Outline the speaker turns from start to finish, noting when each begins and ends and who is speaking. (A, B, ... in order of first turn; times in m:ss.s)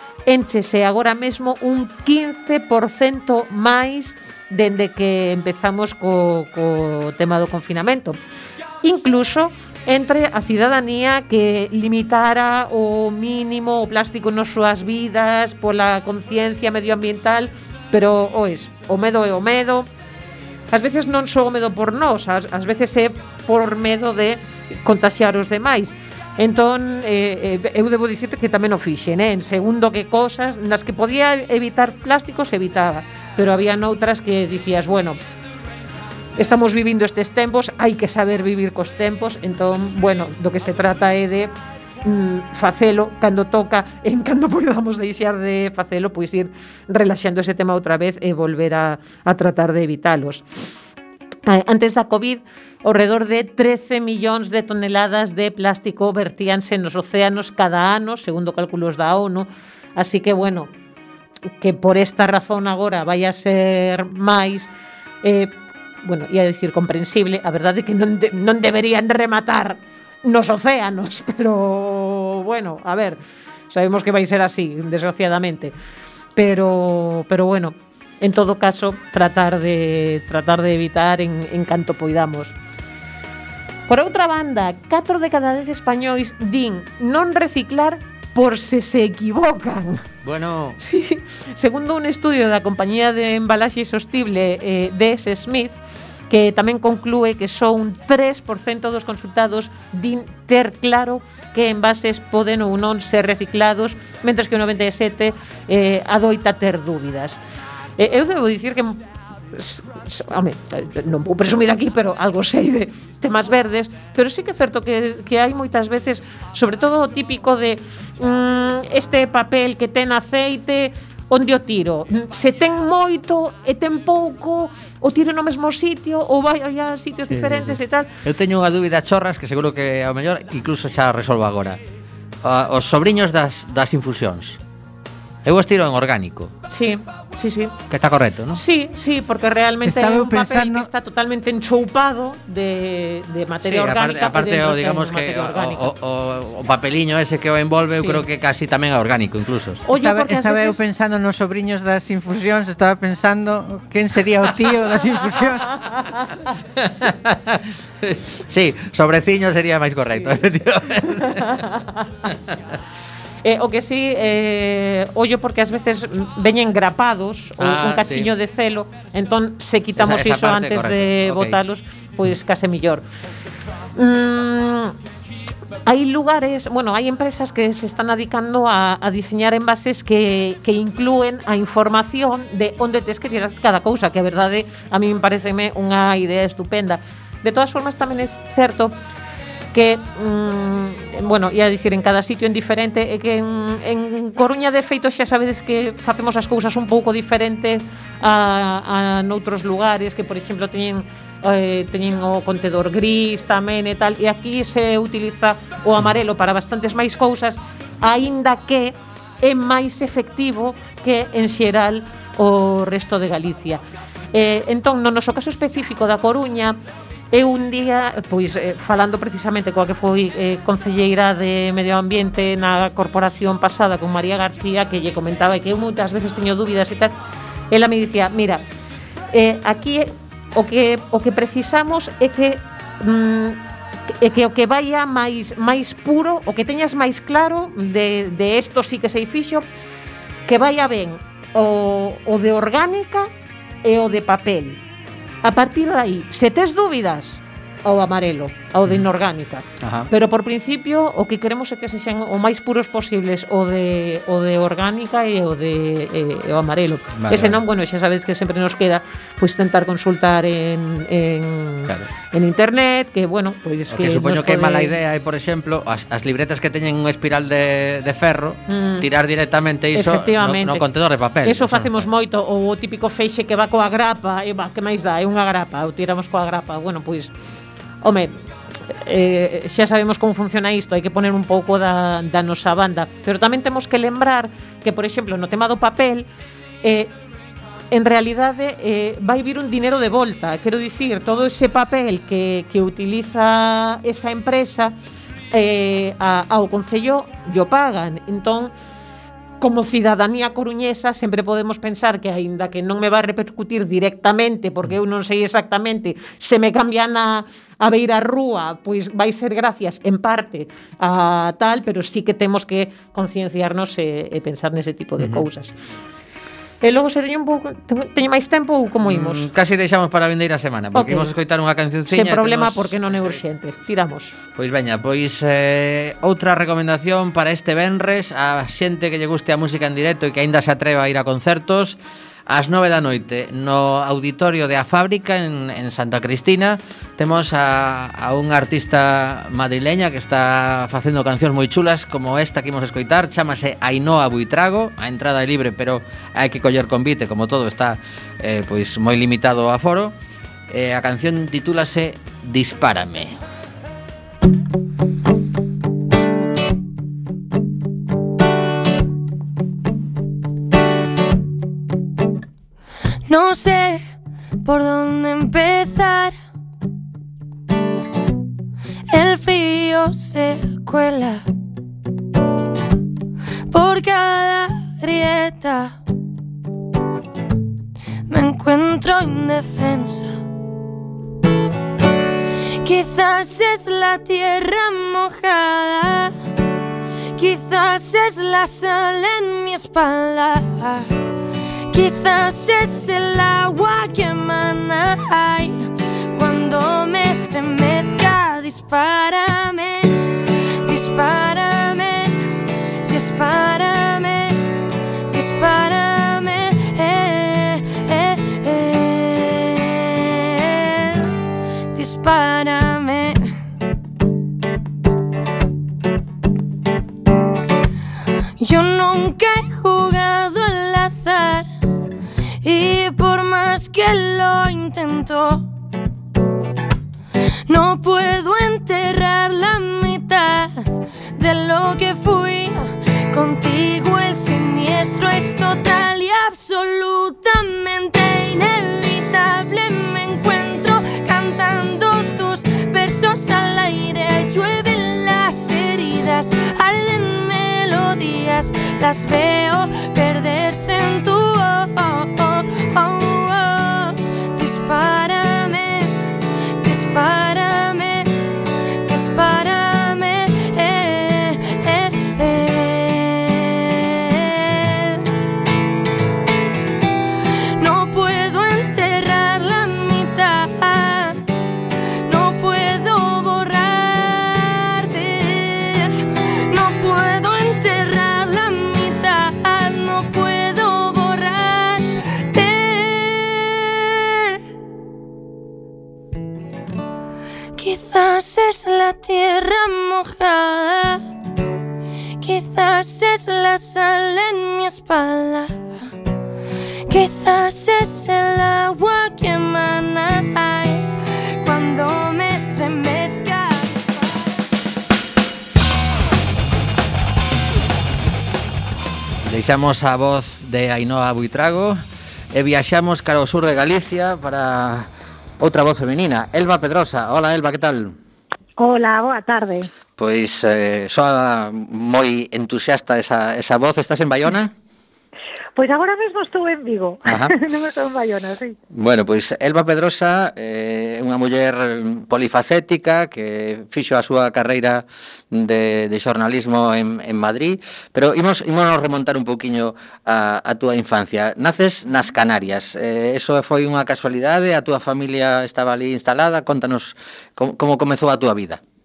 0:00.3-0:08.2 A
0:08.8-0:19.9 A
0:20.7-0:35.2 A
0:36.4-0:41.5 A
0:42.0-0:50.4 A
0:51.5-1:00.7 A
1:01.6-1:04.7 A
1:05.2-1:05.5 A
1:06.0-1:13.2 A
1:13.7-1:15.8 A
1:16.4-1:22.5 A
1:23.9-1:30.1 A
1:30.2-1:30.8 B
1:30.8-1:35.8 A
1:36.3-1:47.4 A
1:48.0-1:49.0 A
1:49.5-2:08.1 A
2:07.3-2:11.8 B
2:12.4-2:14.6 B
2:15.4-2:16.5 B
2:16.7-2:17.8 A
2:17.9-2:18.6 B
2:18.6-2:25.9 A
2:19.9-2:20.9 C
2:23.6-2:29.8 B
2:28.0-2:28.2 A
2:29.9-2:30.8 A
2:29.9-2:35.7 C
2:35.8-2:36.4 A
2:36.8-2:41.7 B
2:41.0-2:42.3 A
2:43.4-2:53.0 A
2:47.6-2:48.3 B
2:50.0-2:51.6 B
2:54.0-2:55.0 A
2:55.9-3:09.0 A
3:09.7-3:33.8 A
3:34.3-3:36.8 A
3:37.3-3:47.1 A
3:47.7-3:48.6 A
3:49.3-3:59.6 A
4:00.5-4:03.3 A
4:03.8-4:04.8 A
4:05.4-4:25.0 A
4:09.8-4:10.1 B
4:17.2-4:17.6 B
4:23.9-4:32.1 B
4:28.7-4:29.1 A
4:29.9-4:30.9 A
4:31.4-4:37.3 A
4:38.0-4:38.4 A
4:38.9-4:46.3 A
4:46.8-4:47.1 A
4:47.9-4:54.9 A
4:55.5-4:58.7 A
4:59.6-5:15.8 A
5:15.2-5:15.5 B
5:16.8-5:19.5 A
5:19.1-5:23.4 B
5:20.9-5:21.3 A
5:22.1-5:24.4 A
5:24.6-5:50.2 B
5:50.7-5:53.4 B
6:03.3-6:04.0 D
6:04.6-6:06.4 D
6:09.1-6:11.4 D
6:13.7-6:16.0 D
6:18.3-6:20.4 D
6:22.8-6:26.3 D
6:27.4-6:31.1 D
6:31.9-6:40.2 D
6:40.8-6:42.4 D
6:43.1-6:44.6 D
6:45.3-6:51.3 D
6:51.9-6:53.4 D
6:58.6-7:01.7 D
7:02.6-7:05.7 D
7:07.7-7:36.2 D
7:36.8-7:38.3 D
7:39.1-7:45.2 D
7:47.8-7:51.4 D
7:52.3-8:04.0 D
8:07.8-8:11.2 D
8:12.4-8:16.0 D
8:17.1-8:21.1 D
8:21.6-8:24.5 D
8:29.4-8:32.0 B
8:32.5-8:38.2 B
8:38.8-8:39.9 E
8:40.2-8:44.7 B
8:45.8-8:48.8 E
8:47.3-8:47.5 B
8:48.9-9:08.8 B